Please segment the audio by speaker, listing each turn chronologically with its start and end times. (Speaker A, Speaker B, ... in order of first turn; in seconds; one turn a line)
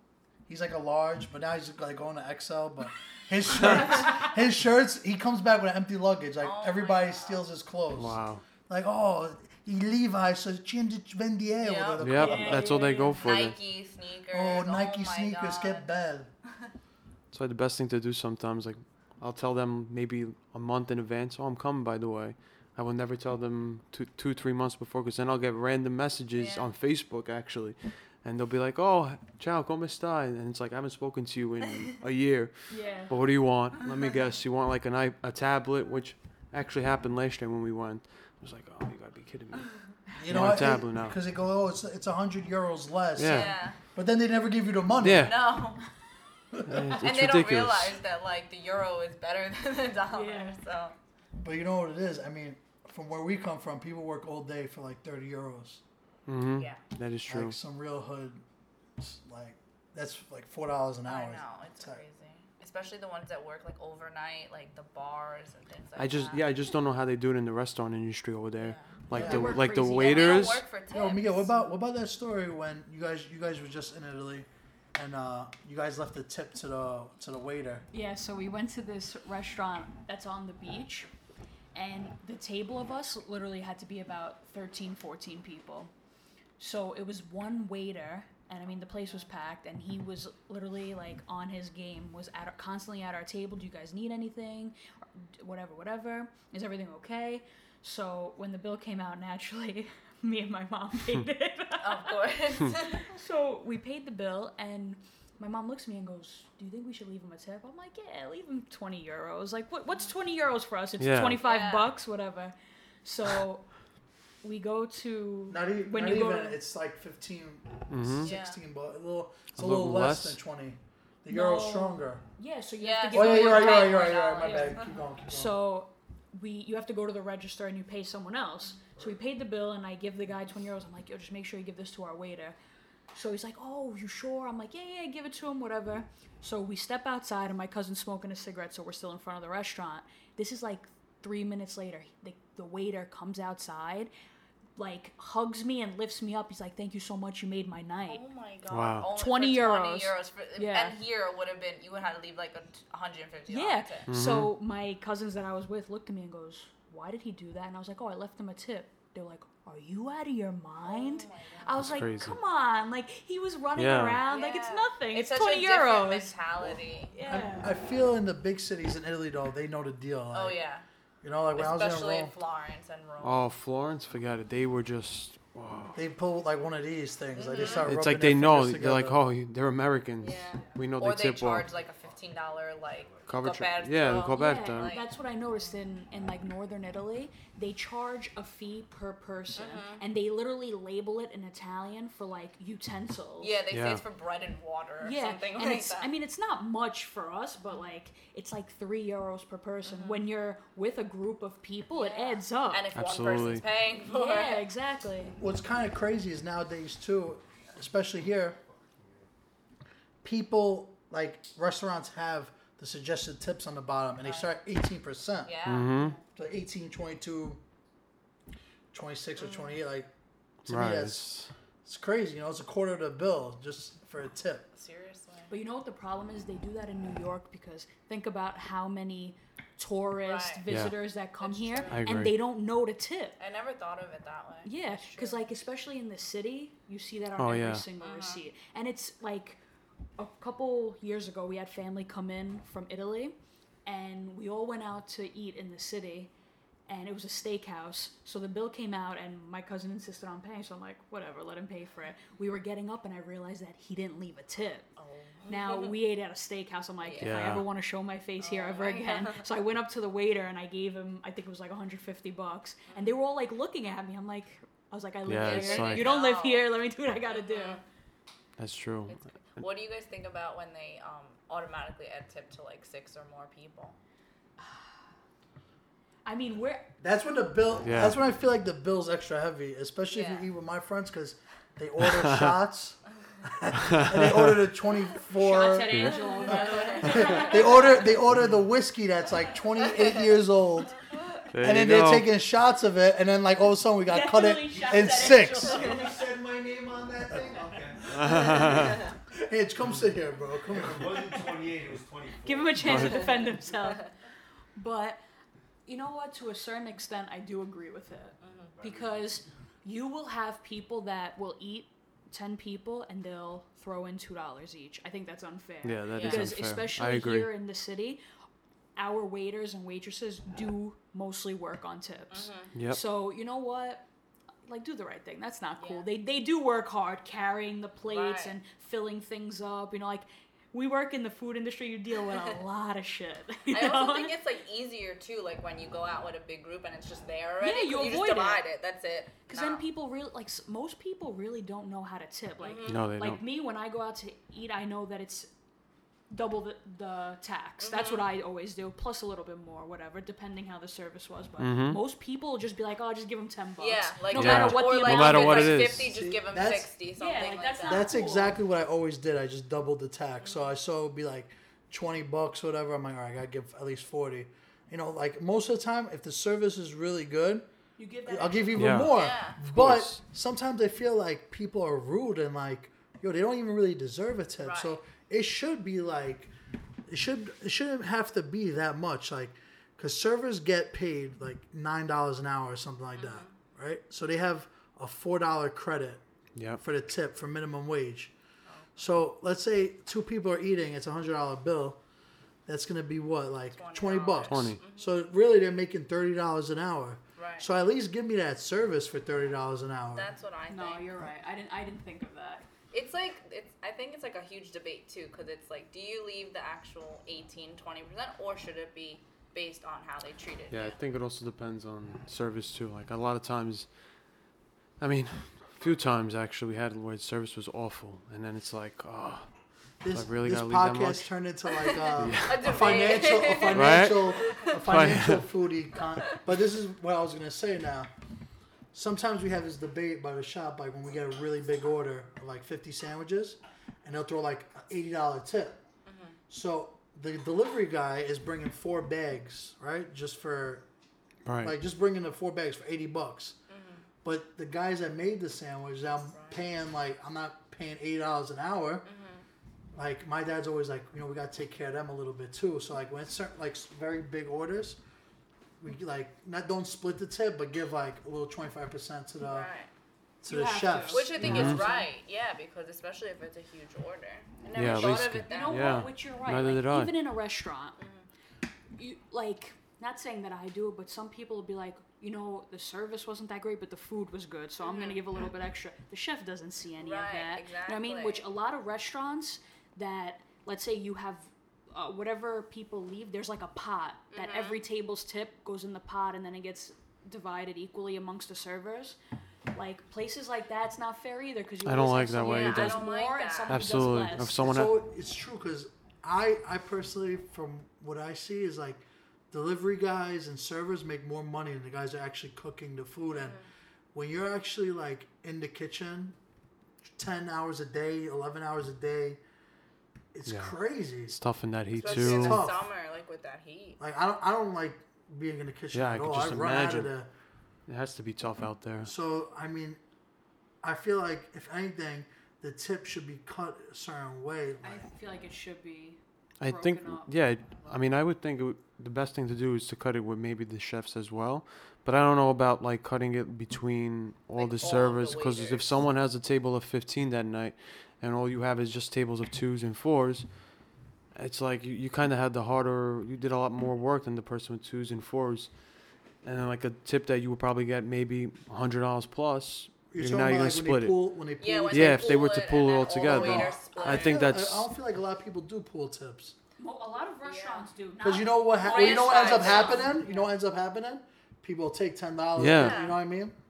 Speaker A: 0.5-12.7
Speaker B: 6.4-7.4
Speaker C: 8.0-8.4
Speaker B: 11.6-12.6
Speaker C: 12.0-13.6
Speaker D: 12.2-13.3
Speaker B: 13.2-15.9
Speaker A: 14.3-16.3
Speaker C: 17.3-41.1
Speaker B: 26.3-26.7
Speaker D: 32.7-33.2
Speaker A: 40.1-45.3
Speaker C: 43.2-43.5
Speaker B: 43.2-43.8
Speaker C: 45.0-45.3
Speaker B: 45.2-45.8
Speaker A: 46.5-46.9
Speaker C: 46.6-48.0
Speaker B: 46.9-50.9
Speaker D: 50.1-50.6
Speaker A: 51.4-55.8
Speaker C: 56.3-57.5
Speaker B: 56.5-56.8
Speaker A: 57.3-58.4
Speaker A: 59.0-62.0
Speaker B: 61.0-66.4
Speaker C: 66.0-70.6
Speaker B: 68.6-69.0
Speaker A: 69.1-69.6
Speaker D: 69.1-70.5
Speaker B: 69.5-71.5
Speaker A: 70.9-77.8
Speaker D: 77.9-81.1
Speaker D: 81.7-85.9
Speaker D: 86.6-113.7
Speaker B: 101.8-103.1
Speaker C: 111.0-111.4
Speaker B: 111.4-111.9
Speaker D: 114.4-116.6
Speaker A: 115.5-122.2
Speaker C: 117.9-118.3
Speaker B: 118.2-118.6
Speaker C: 119.5-120.4
Speaker D: 121.3-132.6
Speaker B: 122.8-124.9
Speaker A: 123.1-125.5
Speaker D: 133.1-144.1
Speaker D: 144.8-148.2
Speaker B: 148.1-154.1
Speaker C: 148.7-149.1
Speaker D: 149.1-151.0
Speaker D: 153.5-166.3
Speaker C: 154.1-154.5
Speaker B: 160.8-162.0
Speaker C: 161.8-162.4
Speaker C: 163.8-164.2
Speaker B: 164.3-167.1
Speaker D: 167.1-167.7
Speaker A: 167.2-170.6
Speaker B: 170.3-170.8
Speaker A: 171.2-172.3
Speaker B: 171.5-173.4
Speaker C: 173.2-176.0
Speaker A: 175.9-179.2
Speaker B: 177.3-177.9
Speaker C: 177.7-181.7
Speaker B: 180.2-185.1
Speaker C: 183.2-184.9
Speaker D: 184.3-193.6
Speaker B: 189.6-190.0
Speaker B: 193.4-196.1
Speaker C: 193.7-194.0
Speaker D: 195.0-202.9
Speaker B: 199.8-200.2
Speaker B: 201.9-204.7
Speaker C: 202.9-203.7
Speaker D: 204.0-205.4
Speaker A: 205.4-208.6
Speaker E: 208.7-209.0
Speaker A: 210.2-215.6
Speaker B: 214.2-214.5
Speaker B: 215.4-216.1
Speaker C: 215.6-216.1
Speaker A: 216.3-217.6
Speaker A: 218.9-220.1
Speaker B: 219.4-219.8
Speaker A: 220.6-221.3
Speaker C: 220.7-221.5
Speaker A: 221.8-224.7
Speaker B: 224.7-225.5
Speaker D: 225.5-233.4
Speaker B: 230.2-232.0
Speaker C: 230.7-230.9
Speaker C: 231.9-232.3
Speaker B: 233.4-235.5
Speaker D: 234.6-239.6
Speaker C: 237.4-237.9
Speaker B: 238.0-238.4
Speaker D: 240.2-243.3
Speaker D: 243.8-246.3
Speaker D: 246.9-254.8
Speaker B: 255.0-255.9
Speaker D: 255.5-267.8
Speaker B: 257.0-257.6
Speaker C: 257.2-257.6
Speaker B: 258.4-259.4
Speaker B: 262.9-263.1
Speaker C: 265.2-266.1
Speaker B: 265.4-266.7
Speaker B: 267.3-267.8
Speaker C: 268.6-269.2
Speaker B: 269.1-274.0
Speaker D: 276.2-276.9
Speaker A: 277.0-290.9
Speaker C: 277.8-278.2
Speaker B: 280.1-280.4
Speaker C: 282.1-282.5
Speaker C: 283.7-284.6
Speaker D: 285.3-288.1
Speaker C: 285.9-286.2
Speaker B: 286.1-287.9
Speaker C: 291.5-292.3
Speaker A: 291.6-295.9
Speaker D: 294.1-296.0
Speaker E: 294.9-298.6
Speaker A: 298.0-301.5
Speaker C: 298.1-299.0
Speaker E: 300.7-303.3
Speaker D: 302.4-304.1
Speaker C: 302.8-303.2
Speaker D: 304.8-305.2
Speaker D: 305.9-318.2
Speaker B: 308.4-308.7
Speaker E: 308.8-309.2
Speaker C: 315.8-317.5
Speaker B: 316.1-316.5
Speaker D: 318.9-324.1
Speaker B: 322.3-322.7
Speaker C: 322.7-323.0
Speaker D: 324.6-334.3
Speaker B: 325.8-326.1
Speaker B: 328.1-328.5
Speaker B: 333.7-339.8
Speaker D: 337.6-338.6
Speaker D: 339.5-345.5
Speaker B: 342.6-343.0
Speaker C: 342.9-343.4
Speaker D: 346.3-355.8
Speaker B: 347.8-348.2
Speaker C: 351.6-352.0
Speaker B: 353.8-358.1
Speaker C: 354.3-356.1
Speaker A: 355.9-356.9
Speaker D: 357.2-358.6
Speaker A: 357.8-367.7
Speaker B: 360.4-360.7
Speaker D: 368.0-369.0
Speaker A: 368.2-376.5
Speaker C: 368.7-370.2
Speaker B: 369.1-369.6
Speaker B: 374.6-375.0
Speaker A: 377.1-386.2
Speaker B: 383.1-383.5
Speaker C: 386.6-386.8
Speaker A: 386.8-388.3
Speaker A: 388.9-392.0
Speaker A: 392.6-400.3
Speaker B: 393.7-395.2
Speaker C: 394.4-394.8
Speaker B: 397.4-397.7
Speaker B: 400.1-401.1
Speaker D: 400.7-402.6
Speaker B: 402.9-411.0
Speaker C: 410.7-413.9
Speaker C: 415.0-419.5
Speaker A: 420.0-428.1
Speaker C: 420.1-421.3
Speaker B: 421.8-424.7
Speaker C: 422.2-423.2
Speaker C: 423.7-425.4
Speaker A: 428.9-435.8
Speaker B: 436.1-436.4
Speaker A: 436.5-440.8
Speaker C: 441.4-441.8
Speaker A: 441.6-443.6
Speaker B: 443.7-444.1
Speaker A: 444.2-449.1
Speaker B: 446.2-446.6
Speaker B: 449.1-449.4
Speaker A: 449.9-455.0
Speaker A: 455.8-459.7
Speaker B: 459.4-459.9
Speaker A: 460.4-461.9
Speaker D: 460.5-462.1
Speaker B: 461.1-466.1
Speaker C: 461.4-461.8
Speaker C: 464.7-467.1
Speaker D: 465.4-468.0
Speaker B: 468.0-468.2
Speaker D: 468.9-489.1
Speaker B: 474.8-475.2
Speaker B: 477.0-478.4
Speaker B: 484.3-484.8
Speaker D: 489.7-494.6
Speaker C: 491.8-493.0
Speaker B: 492.4-493.9
Speaker C: 493.7-494.9
Speaker A: 494.6-503.6
Speaker B: 503.3-503.6
Speaker A: 504.1-506.4
Speaker A: 507.1-509.4
Speaker A: 510.3-511.4
Speaker C: 510.5-510.7
Speaker C: 511.3-512.6
Speaker A: 512.0-512.9
Speaker B: 512.0-514.0
Speaker A: 514.0-517.3
Speaker C: 515.9-517.1
Speaker C: 517.9-519.1
Speaker A: 519.0-520.0
Speaker A: 520.8-525.1
Speaker D: 524.8-527.4
Speaker C: 526.6-540.5
Speaker B: 534.5-536.0
Speaker C: 541.3-545.7
Speaker C: 546.4-551.1
Speaker A: 550.1-552.5
Speaker B: 551.6-554.5
Speaker C: 551.9-554.9
Speaker A: 553.1-556.5
Speaker D: 556.8-560.5
Speaker B: 557.4-557.9
Speaker A: 558.2-563.5
Speaker B: 558.8-560.1
Speaker C: 562.5-563.0
Speaker B: 562.7-563.2